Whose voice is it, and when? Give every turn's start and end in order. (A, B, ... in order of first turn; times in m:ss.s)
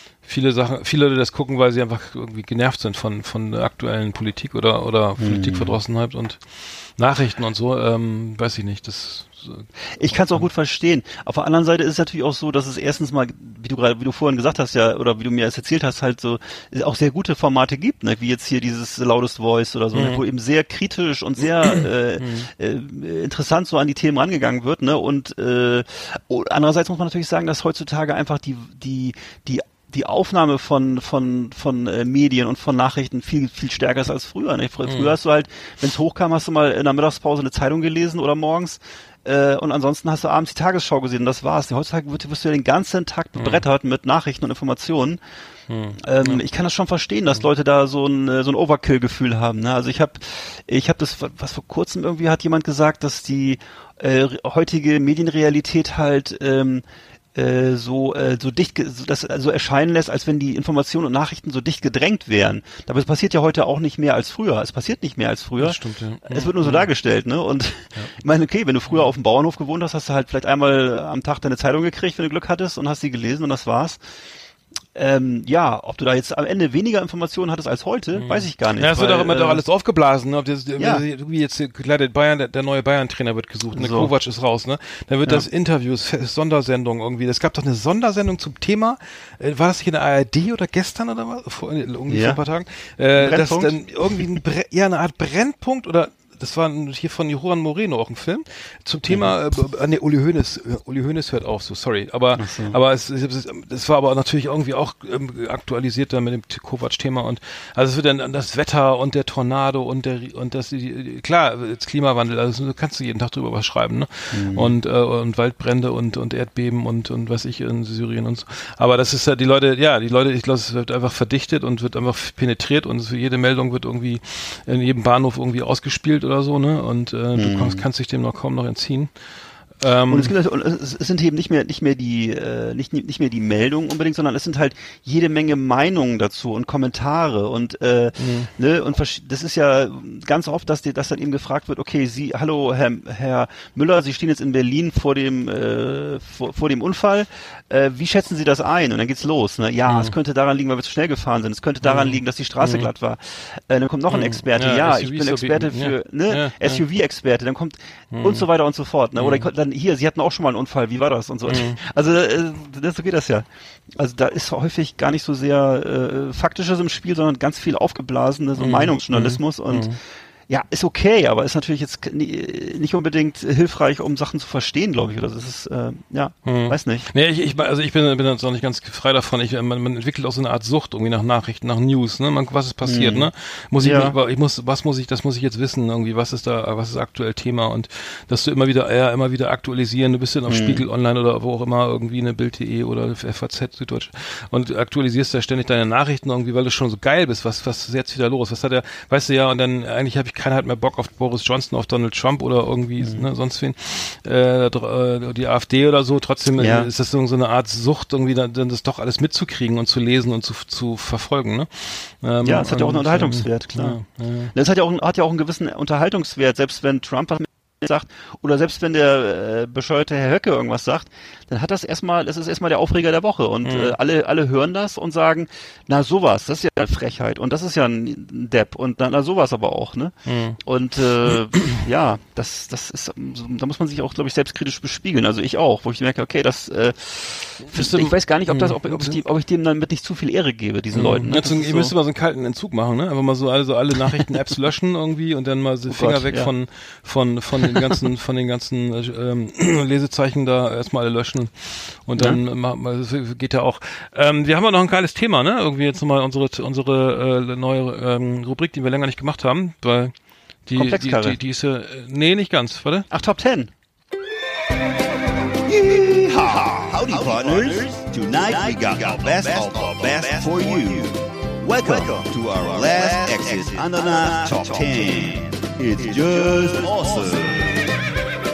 0:00.2-0:09.7 A
0:05.2-0:05.8 B
0:10.0-0:45.2 B
0:19.9-0:20.2 A
0:22.2-0:22.5 A
0:34.8-0:35.1 A
0:43.4-0:43.6 A
0:45.7-0:46.4 A
0:46.0-1:14.0 B
1:05.6-1:06.9 A
1:14.9-1:19.6 B
1:18.1-2:09.1 A
1:20.8-1:21.0 B
1:23.7-1:24.1 B
1:32.1-1:32.4 B
1:33.2-1:34.4 B
1:42.4-1:42.8 B
1:54.3-1:54.8 B
2:07.4-2:07.8 B
2:09.8-2:10.3 A
2:10.1-2:49.9 B
2:18.2-2:18.5 A
2:29.9-2:30.1 A
2:31.8-2:32.9 A
2:34.1-2:36.8 A
2:38.1-2:38.5 A
2:39.2-2:39.5 A
2:41.5-2:41.8 A
2:48.6-2:50.0 A
2:50.5-2:57.1 B
2:56.4-3:34.5 A
3:02.8-3:03.3 B
3:03.8-3:04.1 B
3:10.5-3:10.8 B
3:23.0-3:23.2 B
3:26.6-3:26.9 B
3:32.4-3:34.0 B
3:34.5-4:01.9 B
3:43.6-3:43.9 A
3:50.2-3:50.6 A
3:57.6-3:59.2 A
4:00.9-4:20.1 A
4:05.9-4:06.5 B
4:07.6-4:07.9 B
4:20.6-4:23.1 A
4:20.7-4:21.4 B
4:23.1-4:23.7 B
4:25.7-4:28.0 B
4:25.7-4:37.5 C
4:31.8-4:32.1 B
4:32.8-4:33.7 B